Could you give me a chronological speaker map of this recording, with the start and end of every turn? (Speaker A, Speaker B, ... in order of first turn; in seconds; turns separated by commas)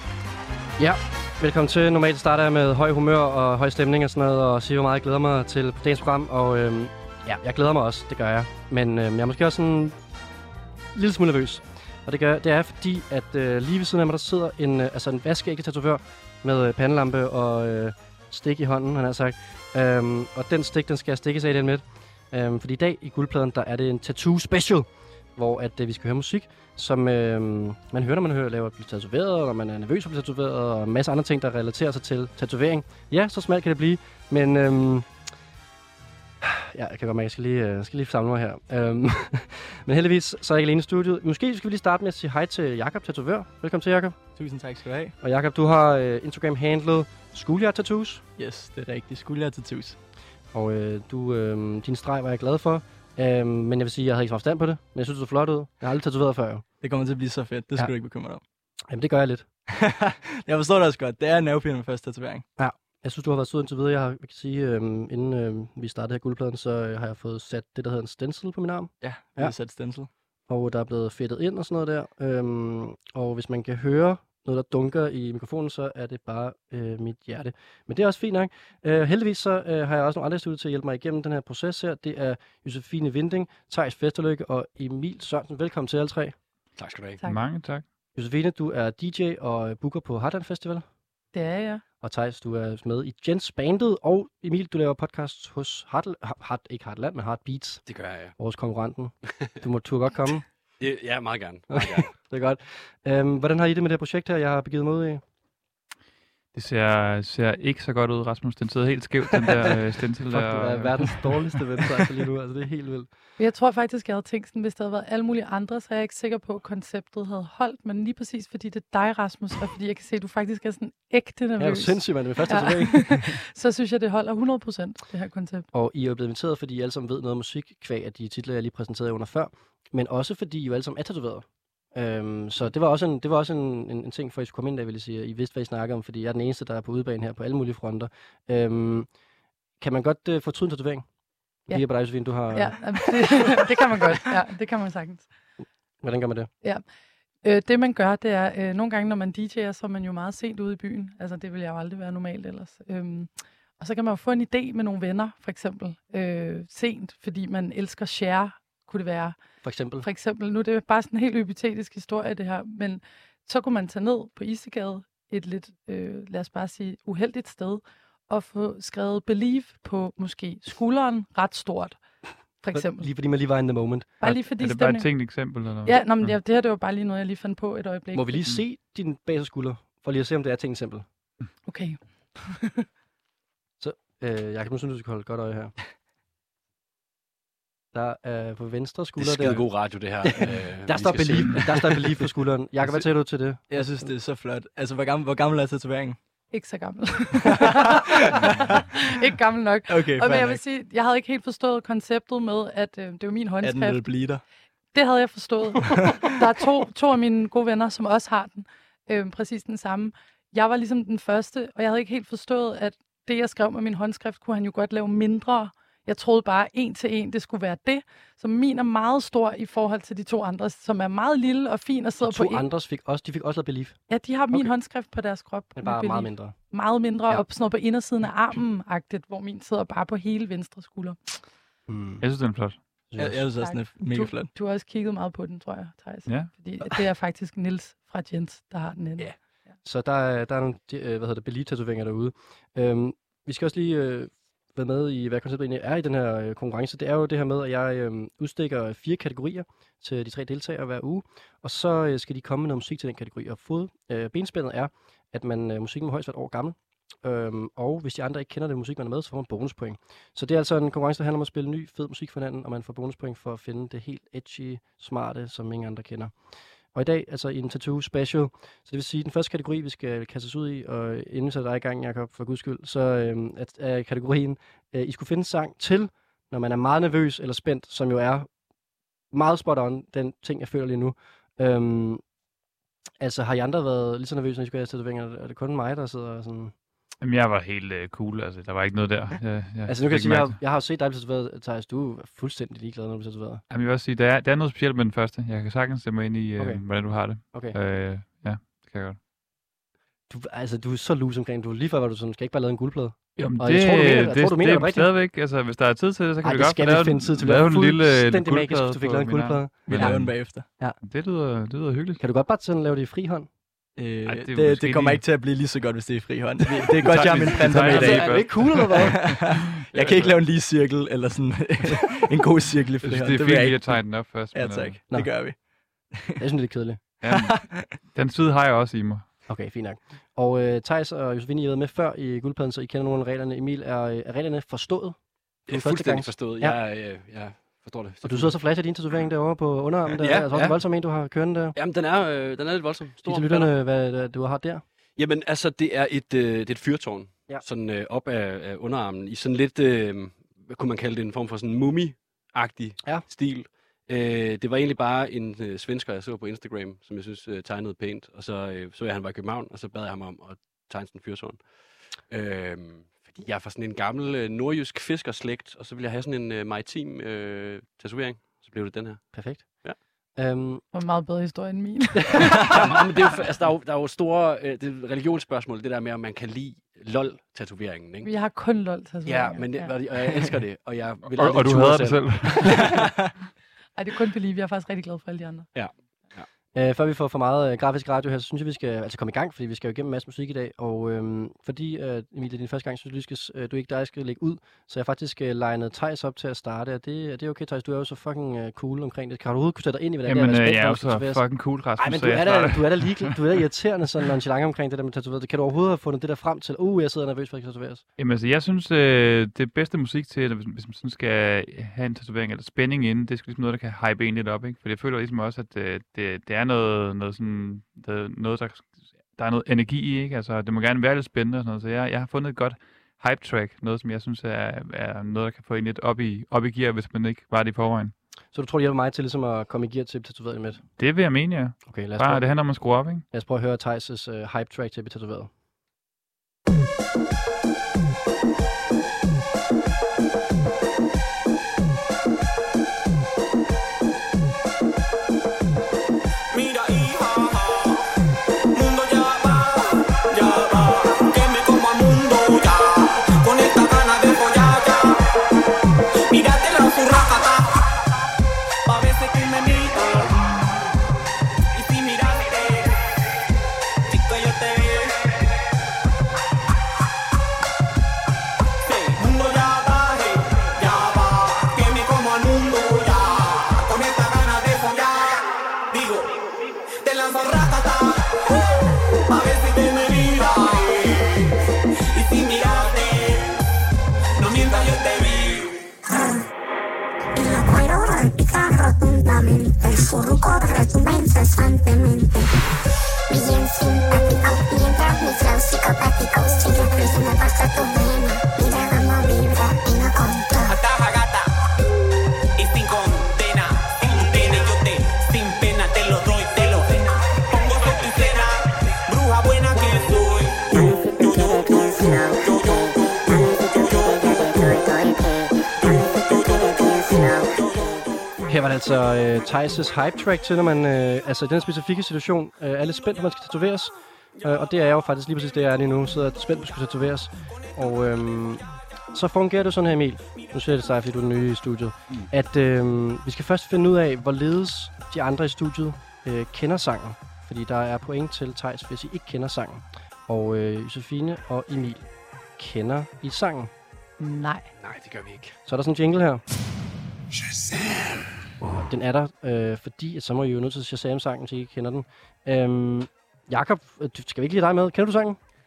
Speaker A: 0.8-9.9, Speaker A: 10.9-35.1, Speaker A: 36.4-44.2, Speaker B: 44.4-45.1, Speaker A: 45.2-48.2, Speaker B: 48.4-50.0, Speaker A: 50.5-56.6, Speaker B: 56.8-58.4, Speaker A: 58.9-59.5, Speaker B: 59.8-62.5, Speaker A: 62.6-69.5, Speaker B: 69.0-70.1, Speaker A: 70.5-86.3, Speaker C: 86.8-87.2, Speaker D: 87.2-87.8, Speaker A: 88.2-90.8, Speaker E: 91.3-91.8, Speaker A: 92.0-97.8, Speaker C: 97.9-98.3, Speaker A: 98.4-100.5, Speaker C: 100.8-102.2, Speaker A: 101.7-105.2, Speaker D: 106.5-111.2, Speaker A: 109.5-109.7, Speaker A: 110.3-113.1, Speaker E: 113.4-125.7, Speaker A: 121.6-123.2, Speaker A: 125.7-139.1, Speaker A: 139.8-141.1, Speaker A: 141.7-142.8, Speaker E: 142.5-145.3, Speaker A: 146.0-146.5, Speaker E: 147.4-159.4, Speaker A: 159.6-160.1, Speaker E: 160.0-172.0, Speaker E: 172.6-173.1, Speaker A: 172.7-174.2, Speaker E: 174.2-175.1, Speaker D: 174.2-176.3, Speaker E: 175.8-178.5, Speaker A: 178.1-181.1, Speaker E: 181.7-182.8, Speaker A: 183.8-185.7, Speaker A: 187.9-189.7, Speaker C: 189.2-192.0, Speaker A: 190.2-193.6, Speaker B: 193.7-196.2, Speaker E: 196.5-204.1, Speaker B: 197.4-198.8, Speaker B: 199.9-200.6, Speaker B: 203.6-204.4, Speaker E: 204.9-222.7, Speaker A: 222.2-224.0, Speaker E: 224.1-231.3, Speaker A: 225.8-226.6, Speaker A: 231.9-232.2, Speaker D: 232.2-232.8, Speaker A: 233.1-233.4, Speaker B: 233.2-234.5, Speaker E: 233.6-239.3, Speaker A: 239.8-266.3, Speaker A: 266.9-278.5, Speaker A: 279.3-282.2, Speaker A: 283.2-286.7, Speaker D: 287.2-290.6, Speaker A: 289.9-293.6, Speaker D: 293.7-299.2, Speaker A: 296.6-296.8, Speaker A: 297.4-297.8, Speaker A: 300.3-305.1, Speaker D: 303.4-312.2, Speaker A: 306.4-311.0, Speaker B: 309.9-310.7, Speaker A: 312.2-313.5, Speaker B: 314.0-325.6, Speaker D: 314.3-315.2, Speaker D: 316.8-319.1, Speaker A: 317.6-319.3, Speaker D: 319.9-320.3, Speaker D: 323.0-325.0, Speaker B: 326.1-326.4, Speaker A: 326.4-327.0, Speaker D: 327.2-329.2, Speaker B: 327.3-328.0, Speaker A: 329.5-335.2, Speaker A: 335.7-336.8, Speaker C: 335.7-338.5, Speaker A: 338.2-341.8, Speaker C: 340.2-340.8, Speaker C: 341.8-343.7, Speaker A: 343.2-344.8, Speaker C: 345.2-361.6, Speaker C: 362.3-369.3, Speaker A: 369.3-369.8, Speaker A: 370.4-370.8, Speaker E: 370.9-372.5, Speaker C: 372.7-378.3, Speaker E: 378.2-379.9, Speaker C: 379.2-382.8, Speaker D: 381.4-383.1, Speaker B: 382.9-383.3, Speaker E: 384.0-385.7, Speaker C: 385.7-386.5, Speaker A: 386.7-401.4, Speaker D: 400.3-403.3, Speaker A: 402.0-408.0, Speaker D: 408.2-428.1, Speaker A: 428.5-430.8, Speaker D: 431.0-433.2, Speaker A: 431.9-432.6, Speaker A: 433.3-435.5, Speaker F: 446.5-448.1, Speaker F: 448.7-455.3, Speaker F: 456.3-457.8, Speaker F: 458.9-460.4, Speaker F: 461.7-463.2, Speaker F: 464.1-465.5, Speaker F: 468.8-478.8, Speaker F: 479.3-481.4, Speaker F: 482.1-483.6, Speaker F: 484.4-485.8, Speaker G: 487.4-492.6, Speaker G: 493.3-500.8, Speaker F: 500.7-501.5, Speaker F: 502.6-515.2, Speaker F: 515.8-518.1, Speaker A: 518.5-542.0, Speaker A: 542.6-543.7, Speaker E: 544.2-544.7, Speaker C: 544.8-545.5, Speaker A: 545.6-546.4, Speaker A: 548.8-555.4